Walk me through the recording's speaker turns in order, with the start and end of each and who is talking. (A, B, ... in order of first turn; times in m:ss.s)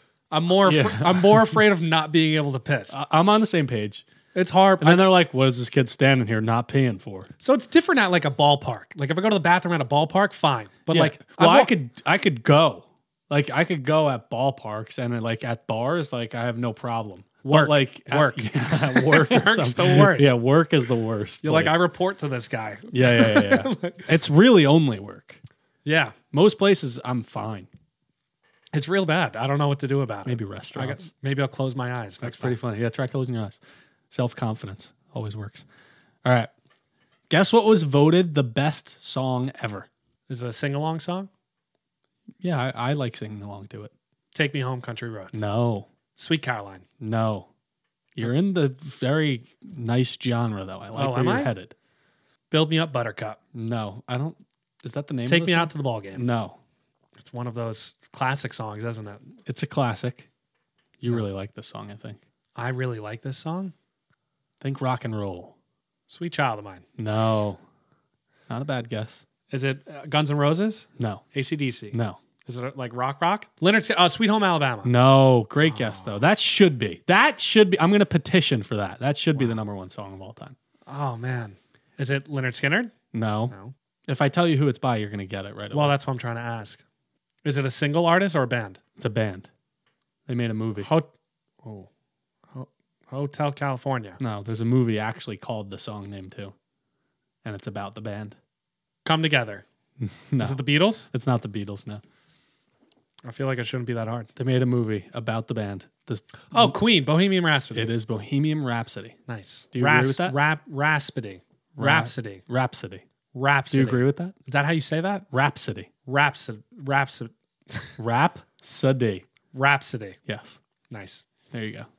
0:00.3-0:03.0 A
0:00.6-0:01.6 B
0:02.9-0:04.0 B
0:04.3-0:05.0 A
0:04.8-0:07.3 B
0:07.4-0:11.7 A
0:10.9-0:21.8 B
0:17.4-0:20.3 A
0:21.4-0:24.1 A
0:22.9-0:25.4 B
0:25.8-0:26.2 A
0:26.3-0:27.7 B
0:28.7-0:32.6 A
0:30.2-0:31.1 B
0:32.2-0:33.6 B
0:34.1-0:35.6 B
0:36.2-0:36.5 B
0:37.3-0:39.9 B
0:40.3-0:41.3 A
0:42.4-0:43.9 B
0:44.3-0:45.4 A
0:45.3-0:45.9 B
0:46.2-0:46.8 A
0:47.0-0:47.5 B
0:48.1-0:51.7 B
0:50.9-0:51.5 A
0:52.5-0:53.4 A
0:53.5-0:56.6 B
0:55.3-0:56.2 A
0:57.2-0:59.3 A
0:59.4-1:00.3 B
1:01.0-1:02.2 B
1:02.6-1:03.7 A
1:04.6-1:05.5 B
1:06.1-1:06.8 A
1:07.0-1:07.6 B
1:08.5-1:09.2 B
1:09.5-1:14.9 A
1:11.0-1:11.2 B
1:11.9-1:12.2 B
1:14.8-1:20.6 B
1:15.6-1:16.2 A
1:20.9-1:22.9 A
1:23.1-1:23.5 B
1:24.1-1:25.9 B
1:25.7-1:26.8 A
1:27.4-1:28.8 A
1:29.0-1:29.5 B
1:30.3-1:30.9 B
1:30.8-1:31.1 A
1:31.6-1:31.9 A
1:32.5-1:34.2 A
1:34.2-1:36.5 B
1:37.4-1:38.4 B
1:39.0-1:39.6 A
1:40.0-1:42.0 B
1:40.4-1:41.1 A
1:43.2-1:44.3 A
1:44.4-1:46.7 B
1:46.5-1:47.9 A
1:47.7-1:49.2 B
1:49.3-1:52.4 A
1:49.7-1:50.4 B
1:51.8-1:53.0 B
1:53.3-1:55.2 A
1:53.7-1:54.3 B
1:55.3-1:55.9 B
1:56.1-1:57.9 A
1:58.0-1:59.2 B
1:59.5-2:00.2 A
2:00.3-2:00.6 B
2:00.9-2:01.2 A
2:01.5-2:01.9 B